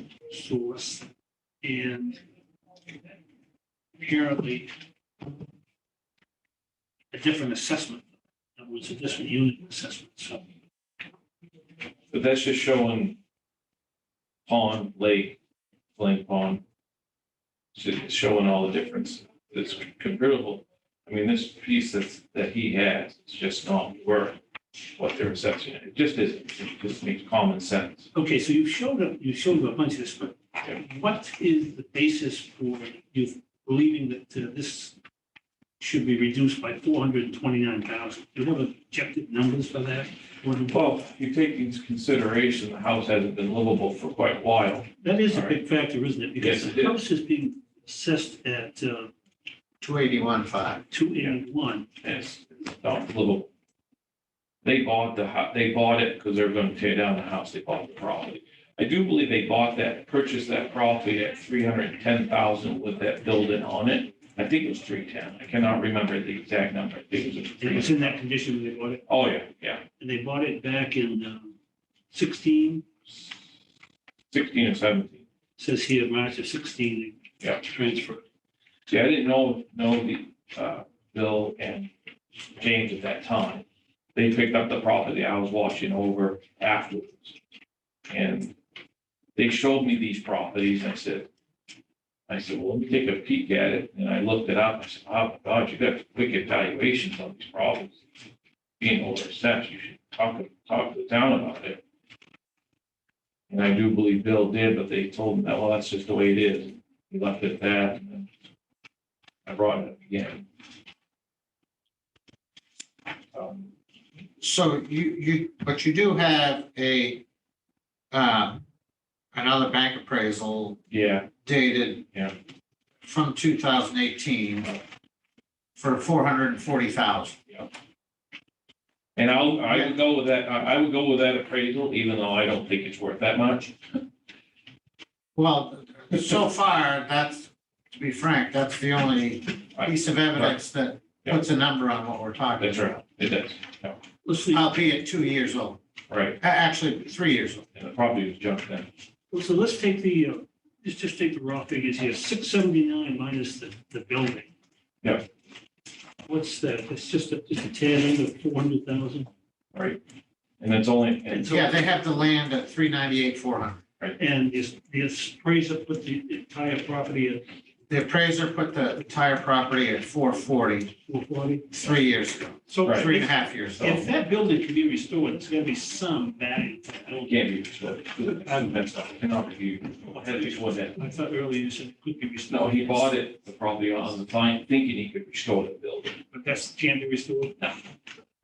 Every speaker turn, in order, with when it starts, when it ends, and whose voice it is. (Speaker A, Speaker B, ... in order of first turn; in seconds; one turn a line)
Speaker A: 0.3-1.1
Speaker A: 1.6-2.2
Speaker A: 4.0-4.7
Speaker A: 7.1-8.0
Speaker A: 8.6-10.5
Speaker B: 12.1-13.2
Speaker B: 14.5-15.4
Speaker B: 16.0-16.6
Speaker B: 17.8-24.4
Speaker B: 25.0-28.1
Speaker A: 28.1-35.0
Speaker A: 35.8-40.8
Speaker B: 40.7-45.6
Speaker A: 45.0-49.1
Speaker B: 46.4-47.0
Speaker C: 49.8-50.8
Speaker A: 50.9-51.9
Speaker B: 52.0-53.5
Speaker B: 54.6-68.2
Speaker A: 67.6-69.0
Speaker B: 69.1-69.8
Speaker A: 70.0-71.5
Speaker A: 72.1-72.8
Speaker B: 74.3-75.2
Speaker A: 75.6-78.2
Speaker B: 78.9-81.9
Speaker B: 82.6-83.6
Speaker B: 84.2-87.4
Speaker B: 88.1-88.5
Speaker B: 89.4-91.3
Speaker B: 92.3-98.0
Speaker B: 98.8-101.8
Speaker B: 103.5-108.3
Speaker B: 109.5-110.5
Speaker B: 113.3-113.7
Speaker C: 114.4-117.2
Speaker C: 118.1-118.6
Speaker C: 119.3-120.8
Speaker B: 120.9-121.3
Speaker C: 121.5-122.1
Speaker C: 123.0-124.8
Speaker C: 125.8-127.4
Speaker B: 129.2-133.8
Speaker C: 135.4-142.8
Speaker B: 139.8-140.6
Speaker B: 142.6-144.0
Speaker A: 144.2-144.7
Speaker C: 144.5-145.8
Speaker B: 146.1-146.4
Speaker C: 146.4-147.7
Speaker B: 147.8-148.9
Speaker A: 149.3-154.5
Speaker A: 156.3-159.3
Speaker B: 159.7-160.0
Speaker B: 160.6-161.7
Speaker A: 161.3-161.9
Speaker C: 161.5-163.8
Speaker A: 164.2-167.4
Speaker C: 167.9-170.9
Speaker A: 171.1-171.7
Speaker C: 171.7-174.1
Speaker A: 172.7-177.4
Speaker B: 172.8-173.2
Speaker B: 177.2-181.0
Speaker A: 178.2-178.8
Speaker A: 180.0-183.2
Speaker B: 182.5-186.2
Speaker A: 186.3-187.6